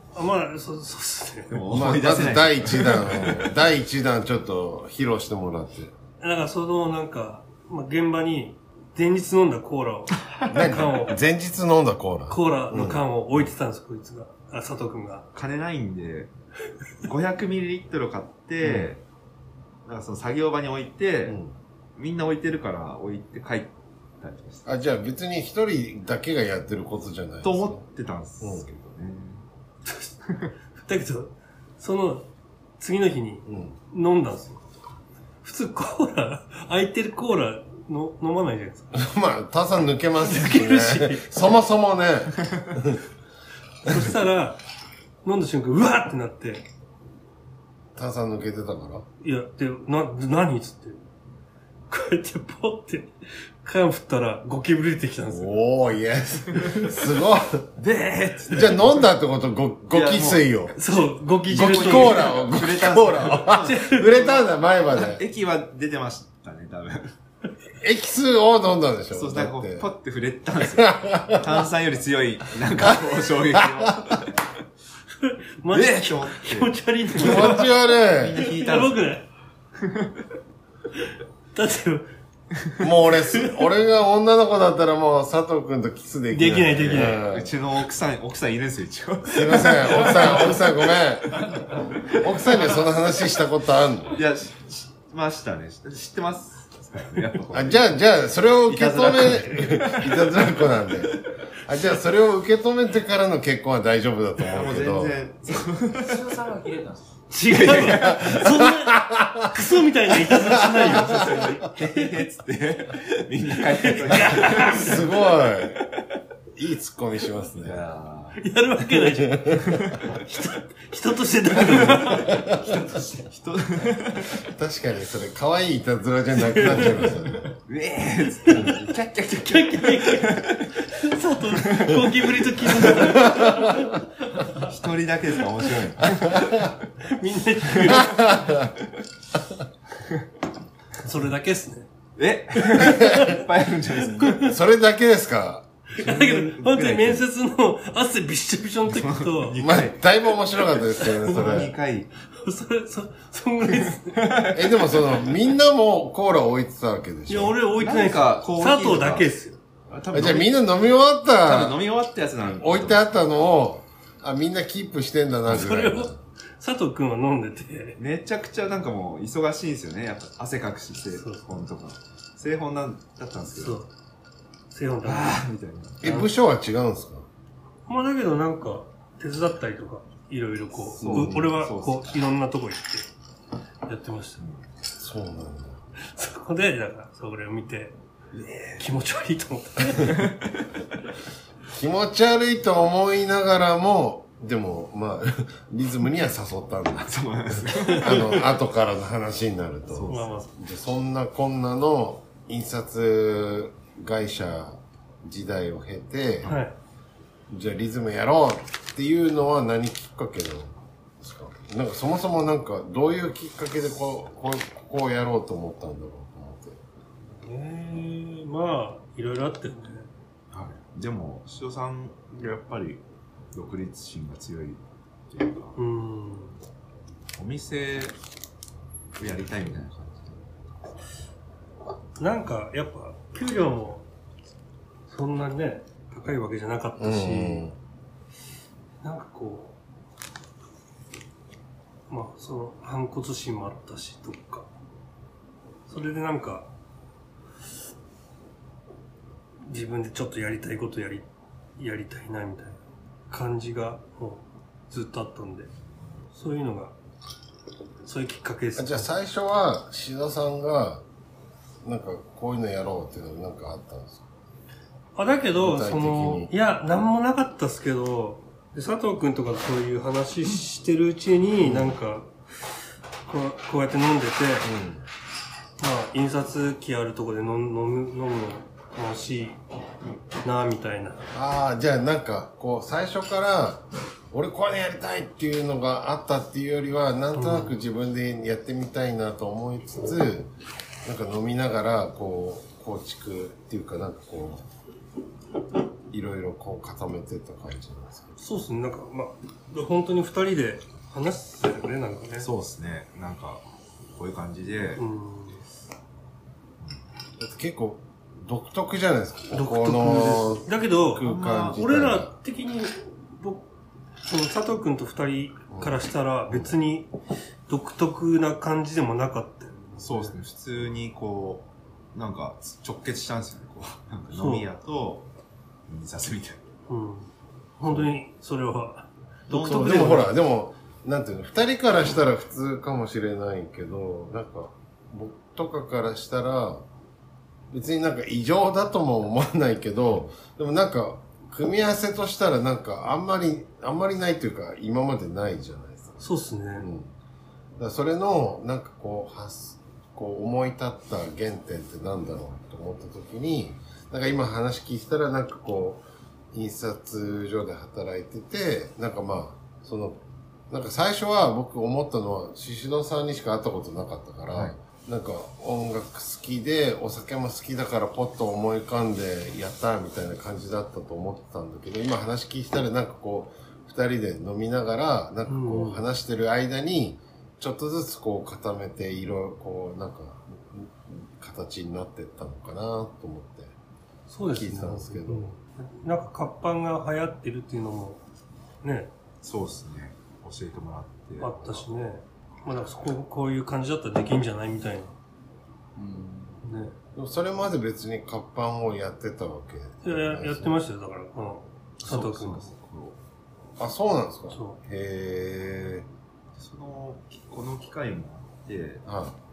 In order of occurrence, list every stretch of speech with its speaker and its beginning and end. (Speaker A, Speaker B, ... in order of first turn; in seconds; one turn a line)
Speaker A: 0.1-1.6
Speaker B: 1.5-3.5
Speaker C: 1.7-5.9
Speaker A: 6.2-11.2
Speaker C: 10.5-13.0
Speaker A: 12.3-15.3
Speaker B: 15.3-16.3
Speaker B: 17.0-19.0
Speaker C: 18.6-18.9
Speaker B: 19.9-21.4
Speaker C: 21.3-21.5
Speaker B: 22.0-24.7
Speaker C: 24.7-27.8
Speaker B: 27.4-29.4
Speaker C: 28.4-28.7
Speaker A: 29.9-30.1
Speaker A: 30.8-32.3
Speaker A: 32.8-34.6
Speaker C: 33.5-33.8
Speaker A: 35.4-39.0
Speaker C: 38.9-43.0
Speaker A: 40.2-41.3
Speaker A: 43.8-44.6
Speaker A: 45.2-46.6
Speaker C: 48.0-49.1
Speaker A: 49.2-51.0
Speaker A: 51.9-55.6
Speaker C: 55.3-57.7
Speaker B: 57.8-59.0
Speaker C: 58.5-60.8
Speaker B: 59.9-67.1
Speaker A: 60.8-62.4
Speaker C: 61.5-65.2
Speaker A: 63.3-64.2
Speaker C: 67.8-69.9
Speaker B: 69.1-74.4
Speaker C: 70.7-71.6
Speaker C: 72.8-74.2
Speaker A: 75.2-77.8
Speaker B: 75.7-79.0
Speaker C: 77.2-78.4
Speaker A: 78.4-79.3
Speaker B: 79.8-80.1
Speaker A: 81.5-82.1
Speaker C: 82.8-87.5
Speaker A: 86.3-87.2
Speaker B: 87.2-91.0
Speaker C: 89.2-91.6
Speaker C: 92.1-94.2
Speaker B: 94.1-98.0
Speaker C: 97.5-105.2
Speaker B: 98.6-100.5
Speaker B: 104.5-106.2
Speaker D: 105.9-107.2
Speaker A: 107.3-112.1
Speaker B: 107.5-108.4
Speaker C: 108.0-109.7
Speaker C: 110.3-111.5
Speaker B: 110.9-115.1
Speaker A: 113.7-115.0
Speaker C: 114.6-115.8
Speaker C: 116.5-117.8
Speaker B: 117.6-118.4
Speaker A: 118.4-122.4
Speaker C: 119.0-119.8
Speaker D: 121.9-123.3
Speaker C: 122.1-122.7
Speaker B: 123.3-124.4
Speaker C: 124.4-127.5
Speaker A: 126.5-127.1
Speaker B: 126.7-127.1
Speaker B: 127.7-130.7
Speaker A: 128.4-128.8
Speaker A: 129.5-134.7
Speaker B: 131.6-133.1
Speaker C: 133.2-133.9
Speaker B: 134.6-136.8
Speaker C: 136.3-136.6
Speaker A: 137.0-138.4
Speaker B: 137.7-138.6
Speaker C: 137.9-138.7
Speaker A: 141.0-141.9
Speaker B: 142.2-144.6
Speaker A: 142.6-143.4
Speaker C: 143.0-143.3
Speaker A: 144.2-144.5
Speaker C: 144.4-145.8
Speaker A: 145.9-149.6
Speaker B: 146.0-147.2
Speaker B: 148.9-150.0
Speaker C: 149.6-151.7
Speaker B: 151.0-152.1
Speaker A: 152.3-154.2
Speaker B: 153.7-155.2
Speaker C: 154.5-157.6
Speaker A: 157.3-159.6
Speaker B: 157.8-159.3
Speaker B: 159.9-160.5
Speaker C: 160.1-161.8
Speaker B: 161.4-163.0
Speaker C: 162.6-166.2
Speaker A: 165.5-168.0
Speaker B: 168.0-173.8
Speaker A: 171.1-171.4
Speaker A: 173.6-173.9
Speaker A: 174.7-175.4
Speaker B: 175.0-176.2
Speaker C: 176.0-177.3
Speaker A: 176.0-176.3
Speaker A: 177.9-183.1
Speaker B: 181.0-182.2
Speaker C: 181.0-181.6
Speaker A: 183.9-184.4
Speaker C: 185.0-185.8
Speaker A: 186.1-188.0
Speaker B: 188.3-188.8
Speaker A: 188.8-190.2
Speaker B: 190.0-190.7
Speaker C: 191.7-206.6
Speaker B: 197.0-198.4
Speaker A: 197.7-198.3
Speaker B: 199.9-200.4
Speaker A: 200.1-200.5
Speaker A: 206.4-206.8
Speaker C: 207.5-216.8
Speaker A: 217.4-220.1
Speaker B: 220.5-223.0
Speaker B: 223.5-225.8
Speaker A: 225.8-226.6
Speaker B: 227.4-228.2
Speaker B: 229.2-230.9
Speaker A: 232.2-234.1
Speaker A: 235.1-237.7
Speaker C: 237.0-237.8
Speaker A: 239.0-239.8
Speaker A: 242.1-244.7
Speaker A: 245.9-246.7
Speaker A: 249.7-251.3
Speaker A: 251.8-255.7
Speaker A: 256.3-256.9
Speaker A: 258.0-259.1
Speaker C: 258.8-261.0
Speaker C: 261.8-264.3
Speaker A: 265.2-272.3
Speaker C: 265.6-266.5
Speaker C: 271.6-272.0
Speaker A: 273.3-274.7
Speaker C: 274.6-275.0
Speaker A: 275.8-279.6
Speaker A: 280.4-281.2
Speaker C: 281.3-290.5
Speaker A: 287.3-287.8
Speaker C: 291.0-294.6
Speaker C: 296.1-298.4
Speaker A: 298.4-302.5
Speaker B: 302.4-303.6
Speaker B: 304.2-305.0
Speaker A: 305.0-305.6
Speaker C: 307.4-312.3
Speaker A: 309.5-313.7
Speaker B: 311.2-311.8
Speaker A: 314.2-317.1
Speaker C: 315.7-316.0
Speaker C: 316.5-316.7
Speaker A: 317.7-320.4
Speaker B: 320.0-325.3
Speaker A: 324.3-324.7
Speaker B: 325.9-326.6
Speaker A: 326.9-330.3
Speaker B: 329.5-330.3
Speaker C: 329.6-336.9
Speaker C: 337.7-346.2
Speaker A: 346.2-346.9
Speaker C: 346.8-347.1
Speaker C: 347.8-383.8
Speaker B: 364.5-364.8
Speaker A: 375.5-376.0
Speaker A: 384.3-388.2
Speaker C: 384.4-385.5
Speaker A: 388.8-389.1
Speaker B: 389.4-391.9
Speaker A: 391.4-395.1
Speaker D: 396.0-396.6
Speaker A: 396.6-396.9
Speaker C: 397.1-400.8
Speaker A: 400.0-402.7
Speaker B: 402.0-403.2
Speaker C: 403.8-406.1
Speaker A: 404.5-404.8
Speaker B: 406.6-409.0
Speaker C: 409.1-409.4